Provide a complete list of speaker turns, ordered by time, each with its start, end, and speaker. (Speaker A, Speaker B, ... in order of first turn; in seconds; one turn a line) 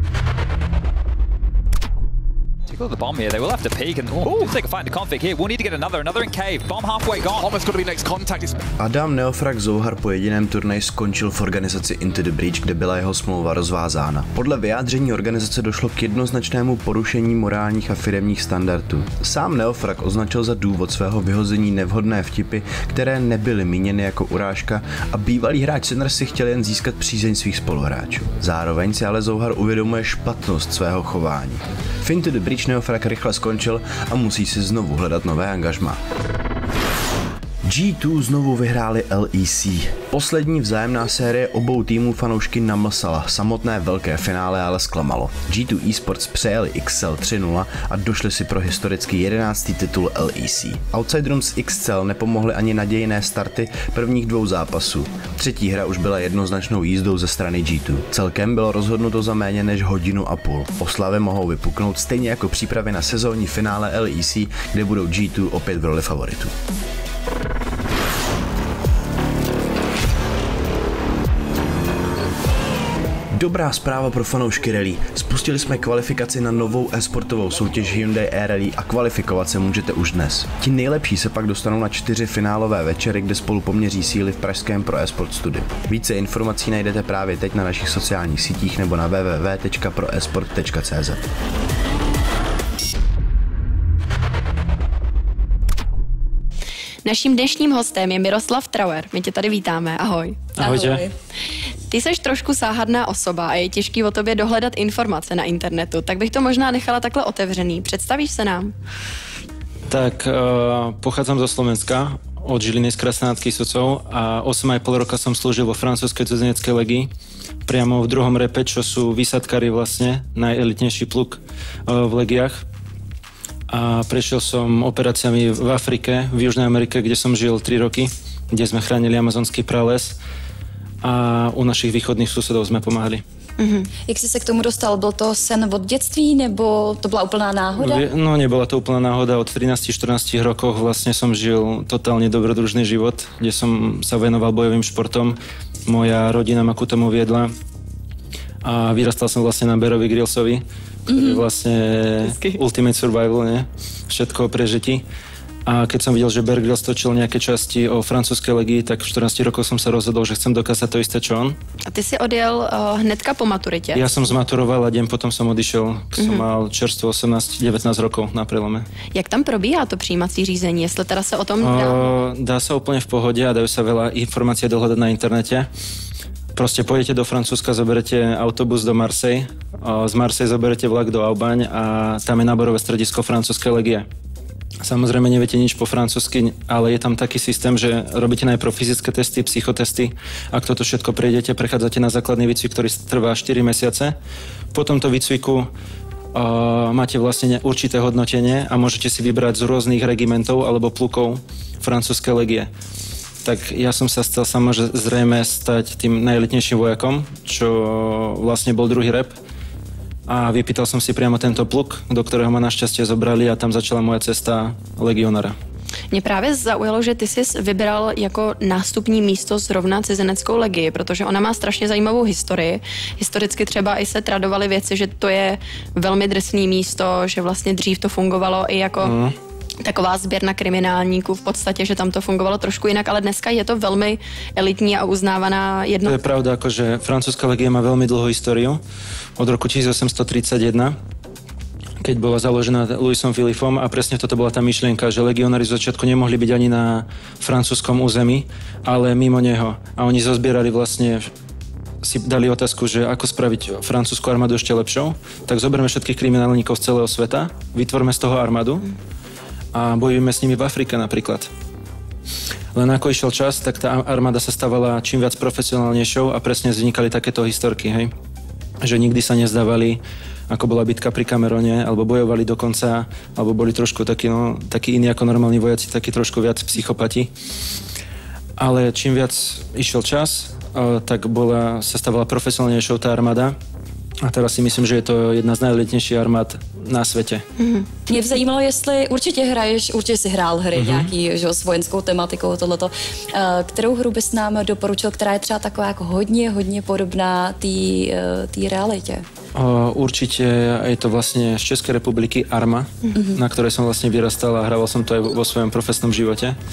Speaker A: 2.7-7.9
Speaker B: 8.8-36.0
Speaker B: 37.6-66.5
Speaker B: 73.3-91.2
Speaker C: 97.0-100.5
Speaker D: 100.6-101.0
Speaker E: 100.6-101.1
Speaker C: 101.9-108.7
Speaker D: 109.9-117.1
Speaker D: 117.7-122.6
Speaker D: 123.7-130.2
Speaker D: 131.0-133.2
Speaker C: 133.6-133.9
Speaker E: 134.1-138.0
Speaker D: 137.8-147.5
Speaker D: 148.6-155.0
Speaker E: 151.1-151.4
Speaker C: 152.2-152.5
Speaker D: 155.7-161.6
Speaker C: 161.9-164.3
Speaker D: 163.9-168.9
Speaker C: 166.2-166.4
Speaker C: 169.1-172.2
Speaker D: 171.6-175.7
Speaker D: 176.6-184.1
Speaker D: 184.8-194.2
Speaker D: 194.7-195.7
Speaker D: 196.3-202.7
Speaker D: 203.4-209.3
Speaker D: 210.3-215.6
Speaker C: 216.1-229.1
Speaker D: 229.0-229.3
Speaker C: 229.8-236.2
Speaker D: 236.0-238.8
Speaker D: 239.4-241.0
Speaker D: 242.0-251.3
Speaker D: 252.0-258.9
Speaker D: 259.7-261.5
Speaker D: 262.8-268.1
Speaker D: 268.8-277.3
Speaker D: 278.6-283.6
Speaker D: 284.2-287.4
Speaker C: 287.6-287.9
Speaker E: 288.1-299.2
Speaker D: 290.8-291.1
Speaker D: 299.6-306.6
Speaker E: 303.1-303.4